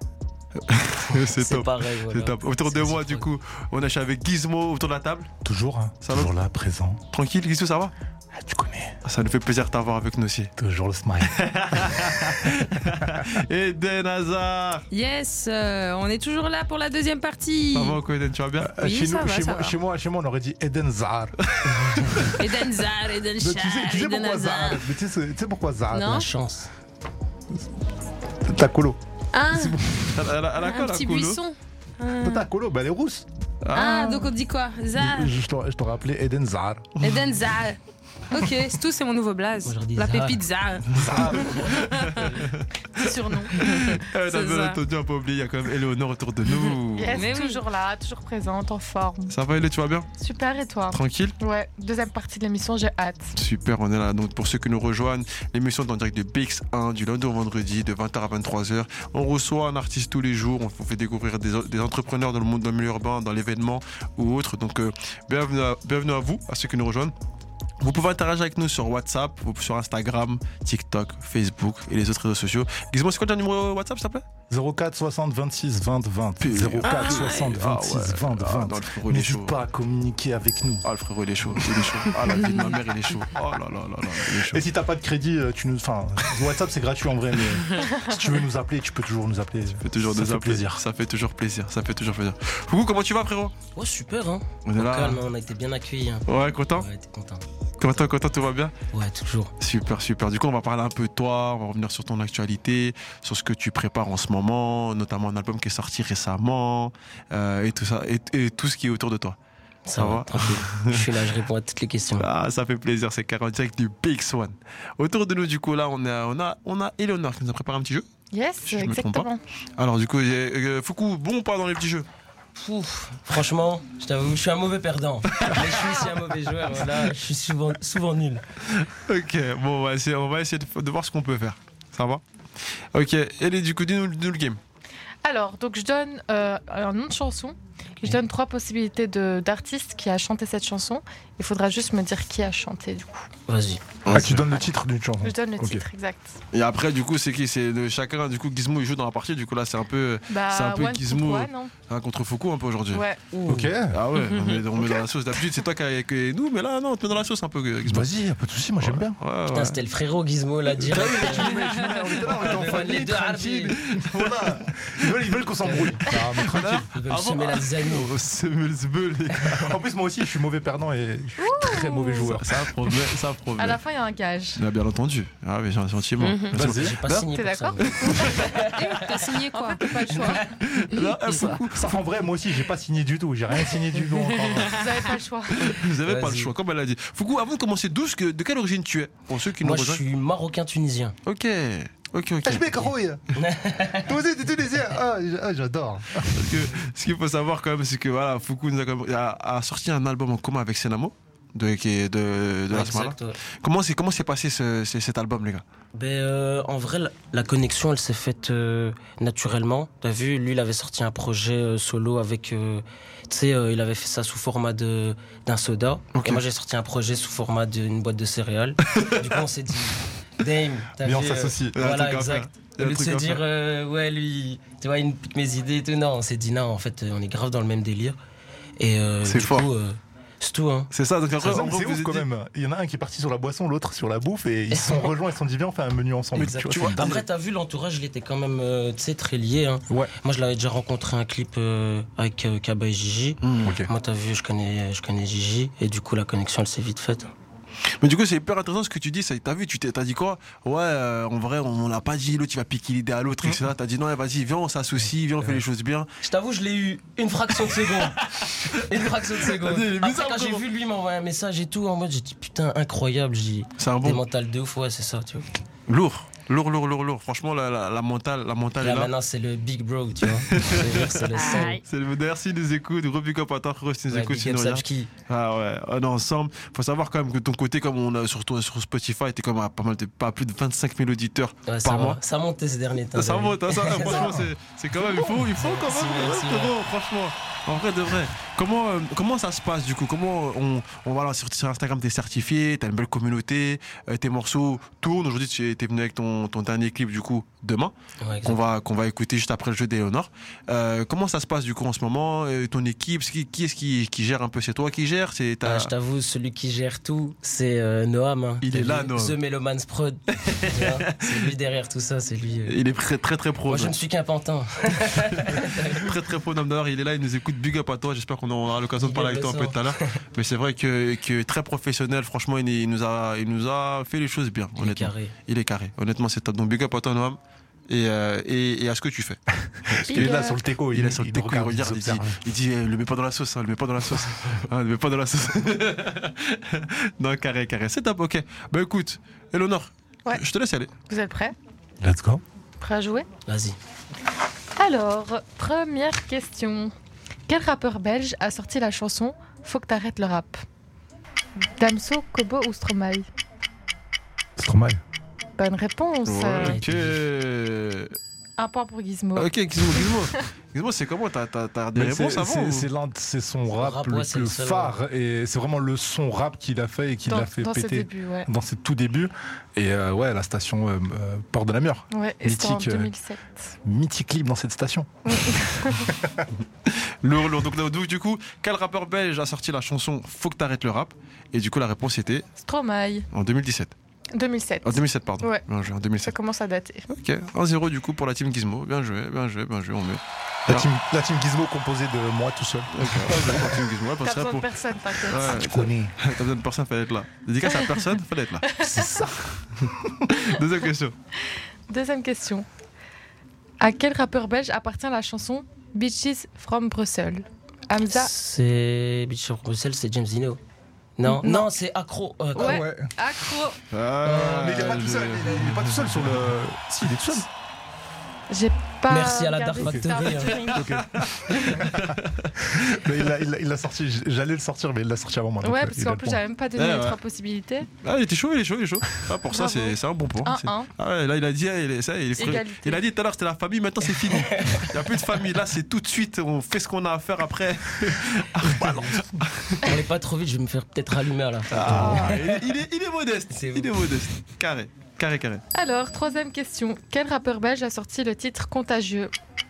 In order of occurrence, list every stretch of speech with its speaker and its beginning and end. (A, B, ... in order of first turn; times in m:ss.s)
0:00.6-0:05.3 A
0:01.1-0:03.3 B
0:05.4-0:07.0 C
0:06.0-0:06.3 A
0:07.1-0:07.9 A
0:08.4-0:09.0 C
0:09.0-0:10.5 A
0:10.6-0:12.4 C
0:11.2-0:14.9 A
0:13.0-0:13.2 C
0:14.9-0:18.0 D
0:17.7-0:18.8 A
0:18.6-0:22.4 C
0:18.8-0:19.8 D
0:21.5-0:22.4 A
0:22.4-0:24.8 D
0:23.4-0:26.2 C
0:25.9-0:26.3 D
0:26.0-0:26.7 B
0:28.4-0:29.0 C
0:29.3-0:30.1 D
0:29.5-0:30.1 C
0:30.1-0:31.4 A
0:30.6-0:32.4 D
0:32.2-0:33.3 C
0:33.6-0:34.0 A
0:33.7-0:35.3 D
0:34.9-0:36.9 C
0:37.0-0:37.8 D
0:38.3-0:42.3 D
0:39.6-0:40.4 B
0:40.9-0:41.7 C
0:41.0-0:47.3 A
0:41.4-0:42.5 B
0:43.0-0:43.6 E
0:43.6-0:44.8 D
0:46.9-0:49.3 E
0:47.1-0:47.6 D
0:49.3-0:50.1 A
0:50.2-0:53.3 E
0:50.9-0:51.4 A
0:53.4-1:07.1 A
1:07.8-1:14.2 A
1:14.5-1:20.8 C
1:16.4-1:19.6 A
1:16.8-1:17.6 D
1:20.8-1:24.6 A
1:21.4-1:22.3 C
1:24.3-1:30.8 C
1:27.8-1:28.1 E
1:29.8-1:33.6 A
1:33.7-1:37.5 B
1:34.7-1:35.2 A
1:36.3-1:36.9 A
1:37.8-1:38.7 A
1:38.9-1:39.5 B
1:39.6-1:49.4 A
1:49.9-1:52.3 B
1:50.0-1:51.2 A
1:52.2-1:58.0 A
1:58.3-1:59.4 E
1:58.6-2:02.1 A
2:02.6-2:08.4 B
2:05.3-2:05.6 A
2:05.7-2:06.1 E
2:08.7-2:12.2 A
2:12.9-2:14.6 A
2:15.2-2:23.3 E
2:23.5-2:23.8 B
2:24.0-2:24.5 A
2:24.1-2:25.8 C
2:25.2-2:26.4 E
2:26.5-2:38.1 A
2:30.3-2:31.7 E
2:32.9-2:33.2 E
2:33.5-2:34.0 C
2:34.2-2:34.6 D
2:37.8-2:39.2 C
2:38.8-2:39.8 A
2:39.5-2:41.7 B
2:40.8-2:46.9 C
2:42.2-2:43.8 B
2:42.3-2:43.0 A
2:43.7-2:45.2 A
2:45.6-2:46.0 B
2:46.1-2:49.8 A
2:46.8-2:48.1 B
2:49.4-2:52.7 C
2:51.4-2:52.3 E
2:52.2-2:53.8 A
2:53.6-2:54.6 E
2:54.6-2:57.3 A
2:56.2-2:56.6 D
2:56.5-2:57.0 C
2:56.6-2:58.7 B
2:57.2-2:58.7 E
2:57.8-2:58.8 A
2:58.7-3:00.4 D
2:59.5-3:00.4 E
3:00.1-3:00.4 B
3:00.4-3:02.0 A
3:01.3-3:04.8 C
3:04.6-3:05.7 E
3:05.6-3:10.0 A
3:05.8-3:06.5 B
3:09.6-3:11.2 B
3:11.2-3:12.9 A
3:12.4-3:13.3 C
3:13.4-3:14.1 B
3:14.0-3:16.6 C
3:16.3-3:25.6 A
3:22.7-3:23.4 B
3:26.0-3:48.2 B
3:36.1-3:36.4 A
3:38.9-3:39.4 A
3:41.0-3:41.8 C
3:41.8-3:43.4 A
3:48.8-3:50.9 B
3:49.3-3:49.7 A
3:50.9-3:52.3 A
3:51.4-3:57.2 C
3:54.7-3:55.1 B
3:56.4-3:57.2 A
3:56.4-4:07.3 B
4:03.4-4:03.8 A
4:03.6-4:03.9 C
4:08.0-4:16.1 A
4:16.2-4:25.5 B
4:17.6-4:20.6 A
4:23.8-4:24.2 A
4:25.9-4:29.1 A
4:28.8-4:31.8 B
4:30.3-4:42.2 A
4:31.3-4:31.8 D
4:34.1-4:35.1 B
4:41.7-4:44.4 B
4:43.2-4:57.9 A
4:44.1-4:44.4 C
4:45.3-4:46.7 B
4:58.2-4:58.6 B
4:58.4-5:05.9 A
5:05.6-5:12.8 B
5:08.6-5:09.4 A
5:10.3-5:11.5 A
5:12.7-5:14.0 A
5:13.7-5:16.1 B
5:15.4-5:40.9 A
5:19.0-5:20.2 B
5:24.8-5:25.4 B
5:29.8-5:32.4 C
5:30.1-5:30.6 E
5:41.1-5:41.6 E
5:42.0-5:42.4 C
5:42.8-5:43.3 E
5:43.5-5:43.8 B
5:44.8-5:46.9 E
5:47.5-5:50.6 E
5:51.8-5:53.3 E
5:54.6-5:55.0 C
5:55.6-5:56.8 E
5:56.2-5:58.2 A
5:56.6-5:57.2 B
5:58.6-6:00.4 E
5:59.4-6:02.9 A
6:02.0-6:13.1 C
6:03.7-6:05.0 B
6:07.3-6:08.5 E
6:12.1-6:13.8 E
6:13.8-6:16.5 C
6:15.2-6:16.1 E
6:16.9-6:22.4 A
6:22.6-6:23.3 E
6:23.3-6:23.9 A
6:24.4-6:25.6 E
6:24.8-6:26.4 A
6:26.2-6:27.1 E
6:27.1-6:30.9 A
6:30.7-6:33.8 C
6:32.9-6:38.7 A
6:34.2-6:35.6 E
6:35.4-6:36.2 C
6:37.7-6:38.0 E
6:38.7-6:39.2 E
6:38.8-6:40.3 C
6:40.3-6:41.1 A
6:41.5-6:42.7 E
6:43.8-6:48.3 E
6:48.1-6:50.6 B
6:51.2-6:52.8 B
6:51.3-6:51.7 E
6:52.6-6:53.1 C
6:52.6-6:53.8 E
6:53.9-6:56.4 A
6:54.2-6:54.9 B
6:54.4-6:57.5 C
6:58.5-7:01.0 E
6:59.1-7:00.7 B
6:59.8-7:00.1 C
7:00.5-7:03.3 A
7:00.7-7:02.1 C
7:01.5-7:01.8 E
7:02.7-7:06.4 C
7:05.6-7:07.9 E
7:06.8-7:07.2 A
7:08.0-7:19.9 A
7:09.5-7:10.9 E
7:12.4-7:13.0 E
7:14.3-7:14.9 B
7:18.6-7:19.3 C
7:19.8-7:22.6 B
7:21.7-7:25.6 A
7:21.8-7:22.3 C
7:21.9-7:22.3 E
7:23.5-7:24.1 B
7:25.7-7:29.3 E